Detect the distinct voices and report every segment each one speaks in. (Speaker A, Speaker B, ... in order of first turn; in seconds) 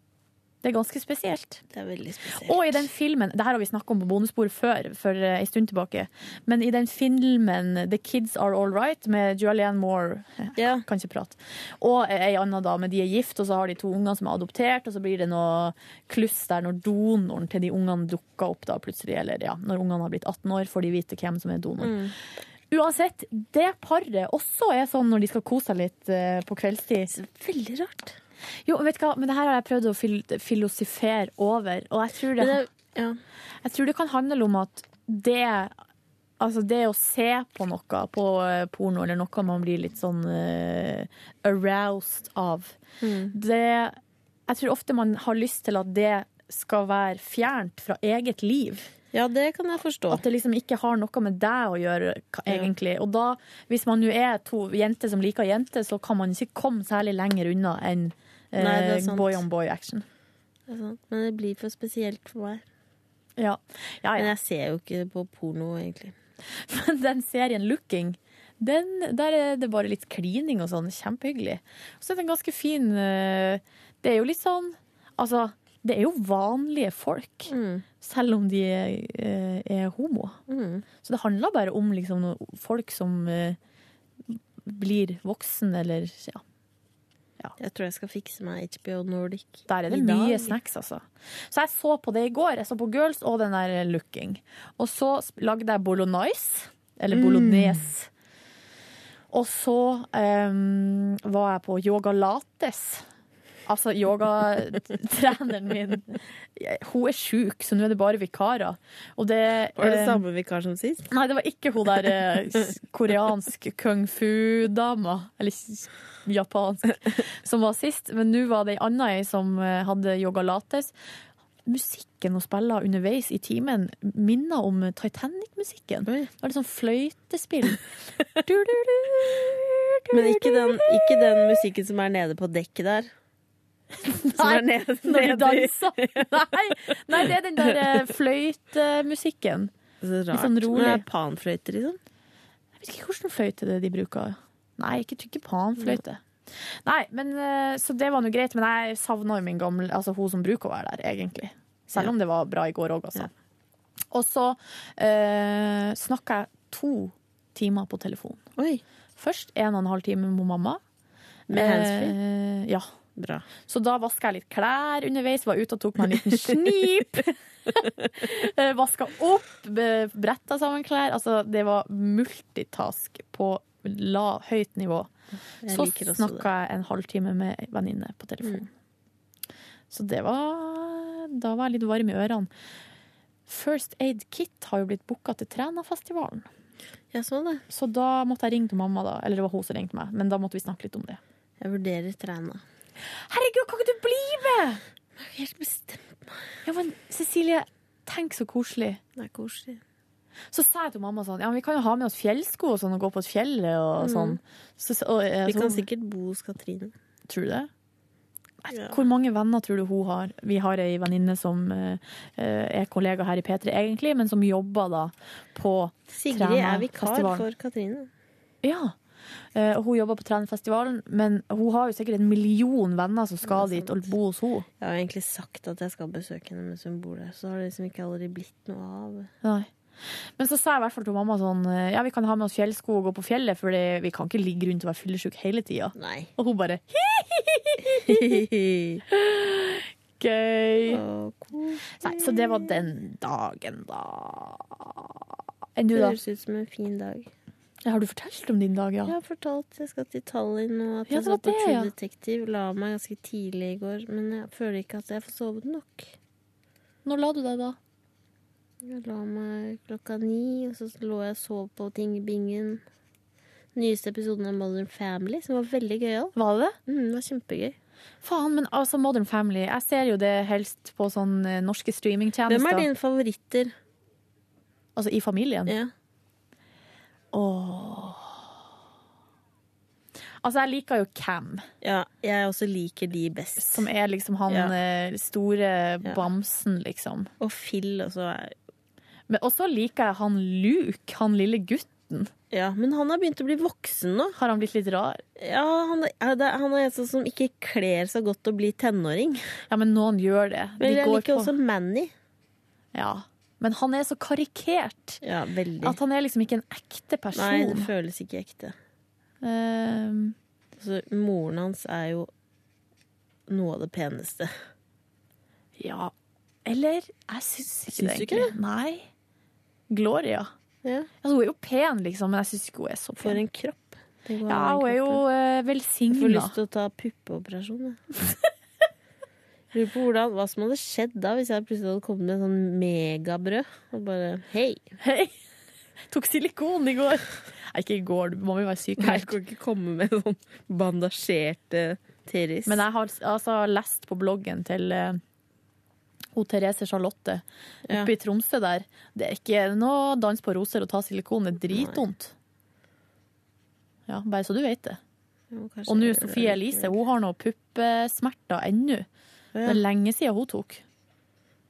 Speaker A: 0.6-1.6, 2.3-22.0, 22.7-27.1, 28.7-32.6, 33.6-35.7, 36.4-42.8, 43.3-44.0, 44.5-48.9, 50.1-60.0, 63.4-64.3, 66.6-80.4, 81.0-83.6, 84.3-86.4, 89.7-98.1, 99.3-103.0, 103.7-110.2, 111.1-120.9, 121.7-127.8, 128.4-131.6, 134.1-139.7, 140.3-141.1, 142.8-146.2, 146.8-153.3, 154.1-158.4, 159.2-160.8, 161.5-162.9, 163.6-175.1, 175.7-178.7, 179.9-182.5, 183.5-186.5, 187.7-191.2, 193.3-194.8, 196.6-199.0, 200.5-205.8, 207.3-207.7, 208.6-217.5, 218.6-218.9, 219.5-224.7, 229.4-229.7, 230.4-238.4, 239.1-241.0, 242.0-245.0, 245.8-246.2, 247.8-249.2, 251.1-251.9, 257.0-257.8, 266.3-266.8, 268.2-272.9, 274.9-275.7, 277.3-278.4, 280.4-281.6, 283.6-287.3, 289.3-292.3, 294.4-295.2, 299.7-301.5, 302.9-305.2, 305.8-307.9, 309.4-310.3, 315.8-316.1, 316.6-319.1, 319.9-320.5, 321.2-323.4, 324.5-326.6, 335.0-335.3, 336.1-339.4, 342.6-345.2, 346.3-352.3, 354.1-355.0, 355.9-359.1, 359.6-360.8
Speaker B: 1.7-2.9, 10.6-10.8, 21.8-22.1, 27.1-28.1, 32.4-33.2, 43.0-43.3, 49.1-50.2, 58.5-59.4, 60.7-62.6, 64.2-66.2, 77.5-77.8, 80.5-80.8, 87.6-90.6, 97.1-97.8, 109.8-111.1, 130.1-133.1, 134.1-137.8, 140.0-142.0, 158.6-158.8, 161.5-162.2, 163.2-163.4, 166.3-166.6, 175.6-176.5, 187.1-187.6, 191.6-192.6, 195.2-196.4, 199.2-199.8, 204.0-204.4, 205.5-206.9, 208.7-209.0, 216.1-218.1, 223.4-224.1, 224.8-229.3, 235.9-236.3, 238.1-239.0, 240.9-242.8, 245.9-247.3, 249.1-256.1, 258.8-262.8, 263.7-266.3, 266.9-267.8, 272.5-273.7, 281.8-283.9, 284.5-284.7, 287.4-288.5, 292.5-294.3, 295.4-299.4, 300.8-302.1, 305.2-306.0, 307.3-308.7, 310.8-312.3, 313.5-314.5, 317.9-318.5, 320.8-321.1, 323.2-325.2, 326.1-328.0, 329.7-334.8, 339.0-342.8, 351.7-352.0, 355.5-357.0, 359.5-359.8